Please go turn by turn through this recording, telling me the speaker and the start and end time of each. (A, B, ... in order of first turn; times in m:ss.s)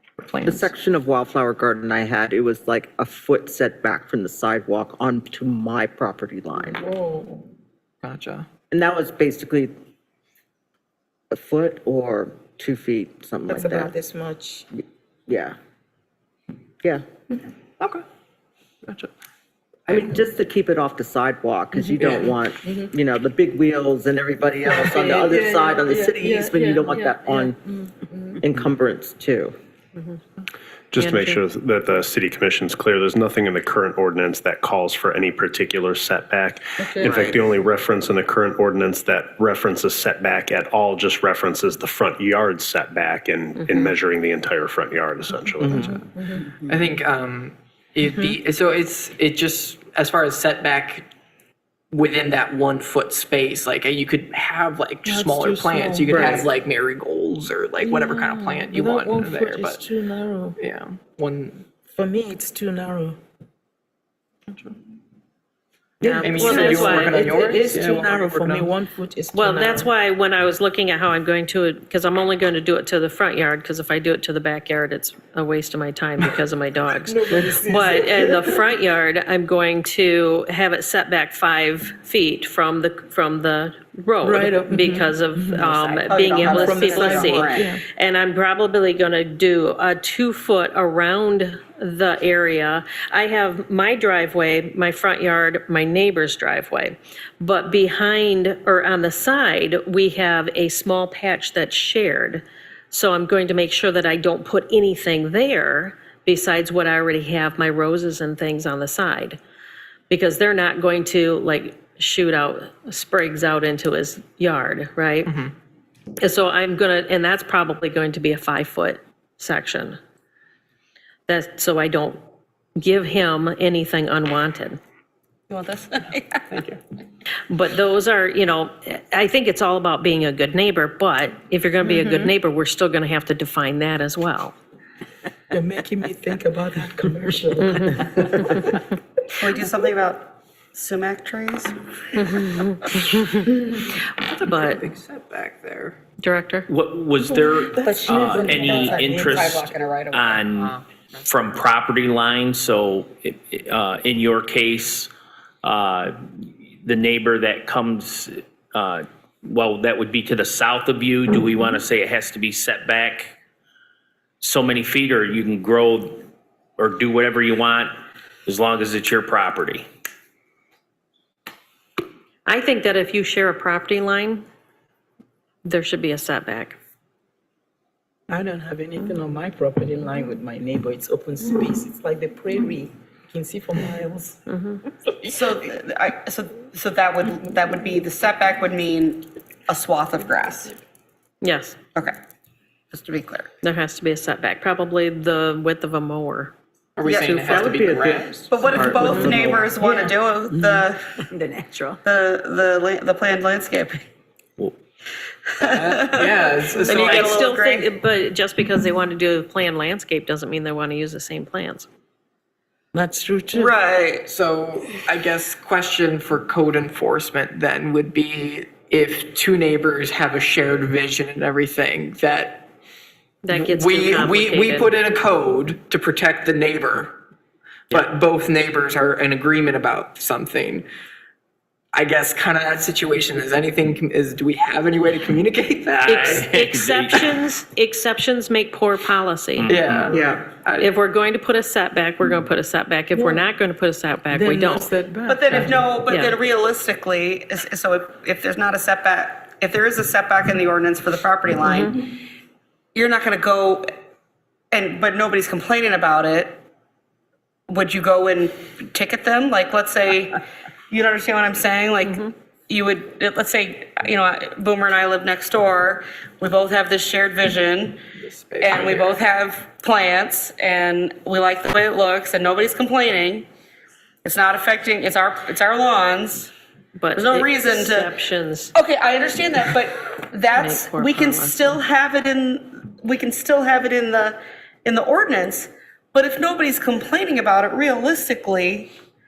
0:00.2-0:00.7 A
0:00.4-0:06.8 B
0:06.8-0:07.4 C
0:08.0-0:08.5 A
0:08.7-0:09.7 B
0:11.3-0:13.9 B
0:13.5-0:14.7 C
0:14.8-0:15.6 B
0:19.9-0:27.6 B
0:22.0-0:22.3 A
0:24.7-0:28.4 C
0:28.4-0:29.5 B
0:30.9-0:45.9 D
0:31.0-0:31.4 E
0:36.8-0:37.1 C
0:37.0-0:37.4 B
0:45.7-0:46.4 C
0:46.6-0:51.1 A
0:51.9-0:59.9 A
0:55.0-0:56.5 C
0:56.1-0:56.4 B
0:57.8-1:00.6 C
1:00.6-1:01.6 A
1:01.9-1:03.2 C
1:04.5-1:04.7 A
1:06.0-1:07.3 E
1:06.0-1:09.9 C
1:06.1-1:06.5 B
1:06.2-1:08.7 A
1:09.3-1:49.4 E
1:17.0-1:18.6 C
1:24.2-1:25.6 C
1:25.6-1:27.7 B
1:26.1-1:27.5 F
1:26.5-1:27.8 C
1:50.1-1:55.3 E
1:55.2-1:55.5 A
1:56.2-2:00.0 E
2:01.3-2:02.2 E
2:02.8-2:04.8 E
2:05.5-2:06.5 F
2:06.5-2:06.8 A
2:07.5-2:14.5 E
2:15.5-2:18.6 C
2:17.6-2:18.5 E
2:19.3-2:22.4 F
2:22.2-2:24.8 E
2:24.3-2:26.0 A
2:26.2-2:26.7 E
2:26.7-2:30.7 G
2:27.2-2:29.4 C
2:27.8-2:30.5 F
2:30.5-2:31.1 A
2:31.3-2:35.1 G
2:35.6-2:43.3 G
2:44.4-2:46.2 G
2:46.8-2:47.9 G
2:48.4-2:49.8 G
2:52.4-2:54.4 E
2:55.6-2:56.8 E
2:58.3-3:04.4 C
3:04.5-3:04.8 E
3:05.3-3:10.8 F
3:11.4-3:11.8 E
3:12.9-3:13.5 F
3:13.6-3:16.5 E
3:17.0-3:18.4 A
3:17.0-3:17.8 F
3:17.2-3:19.7 B
3:18.5-3:21.2 F
3:19.0-3:19.6 A
3:22.0-3:24.0 F
3:25.6-3:27.9 F
3:25.6-3:27.4 A
3:26.9-3:31.9 E
3:32.9-3:33.7 C
3:33.5-3:34.2 F
3:34.2-3:42.7 A
3:43.4-3:45.0 E
3:43.5-3:47.2 A
3:47.9-3:50.8 A
3:51.9-3:56.5 A
3:56.0-3:59.7 E
3:56.7-3:57.2 G
3:59.6-4:00.1 G
3:59.7-4:00.9 A
4:00.1-4:00.4 B
4:00.8-4:04.9 E
4:03.1-4:03.4 C
4:04.3-4:05.9 C
4:05.3-4:12.1 F
4:06.0-4:06.4 E
4:11.6-4:12.0 E
4:12.9-4:13.9 F
4:14.7-4:16.6 F
4:17.7-4:20.4 F
4:20.9-4:28.0 F
4:22.0-4:22.3 E
4:28.2-4:29.1 A
4:28.6-4:33.5 F
4:34.2-4:36.5 F
4:37.0-4:38.7 E
4:37.1-4:38.1 F
4:38.7-4:48.9 F
4:40.5-4:41.8 E